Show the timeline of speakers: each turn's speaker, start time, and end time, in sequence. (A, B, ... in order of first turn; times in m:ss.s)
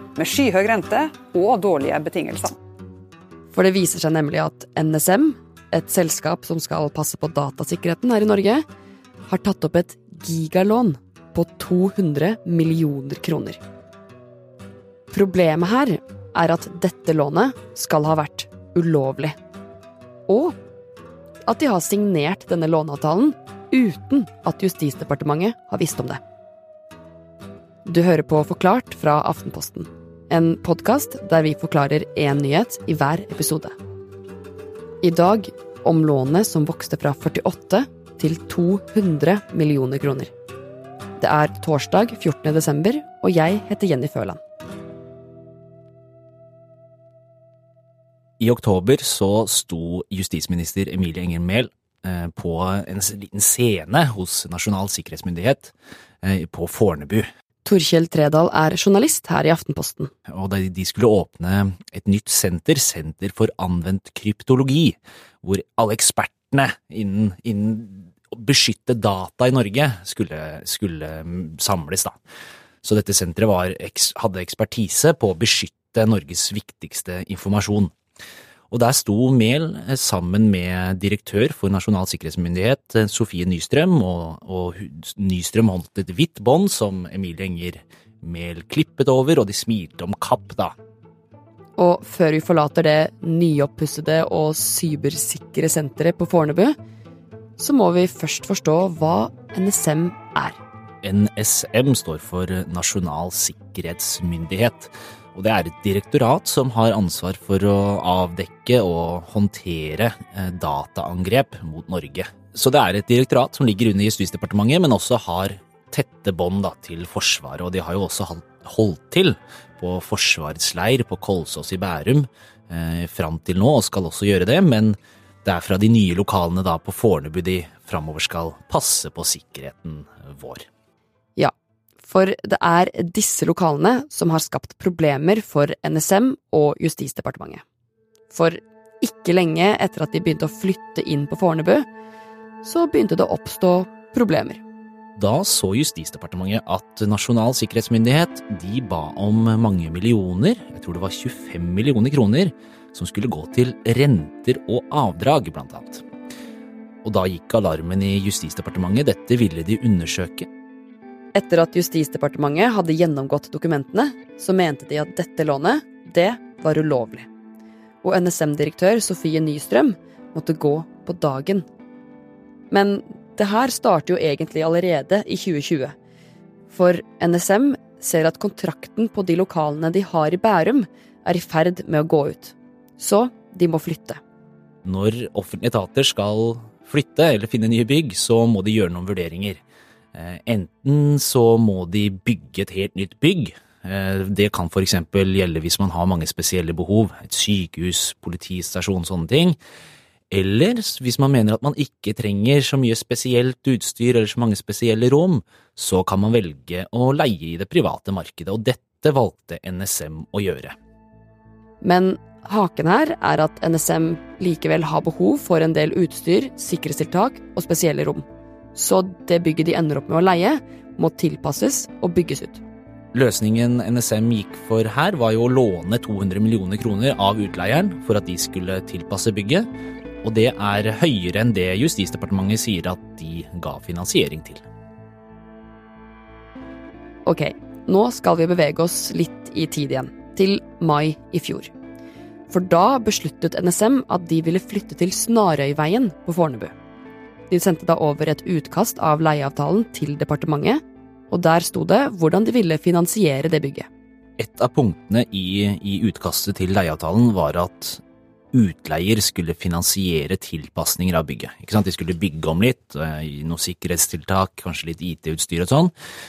0:00.2-0:02.6 A
0:03.5-0:08.6 B
0:09.3-0:13.6 B
0:15.1-0:19.4 B
0:20.3-0:20.6 B
0:21.5-0:26.2 B
0:27.8-0:33.7 B
0:35.0-0:40.3 B
0:41.2-0:44.4 B
0:48.4-0:57.2 C
0:57.6-1:00.1 B
1:00.3-1:12.2 C
1:12.8-1:17.9 C
1:18.7-1:30.7 C
1:31.8-1:36.8 B
1:37.6-1:40.6 B
1:41.0-2:10.6 C
2:11.4-2:17.6 B
2:18.3-2:21.9 B
2:22.6-2:24.6 B
2:25.2-2:36.0 C
2:37.0-2:40.5 C
2:41.3-2:47.3 B
2:48.0-2:51.7 B
2:52.7-2:55.9 B
2:56.7-3:04.2 B
3:04.8-3:09.6 C
3:10.1-3:19.6 C
3:20.3-3:30.7 C
3:31.8-3:42.6 B
3:43.1-3:49.7 C
3:50.2-3:54.6 C
3:57.2-4:01.7 B
4:02.5-4:06.7 B
4:07.5-4:13.9 B
4:14.4-4:18.0 C
4:18.5-4:25.9 C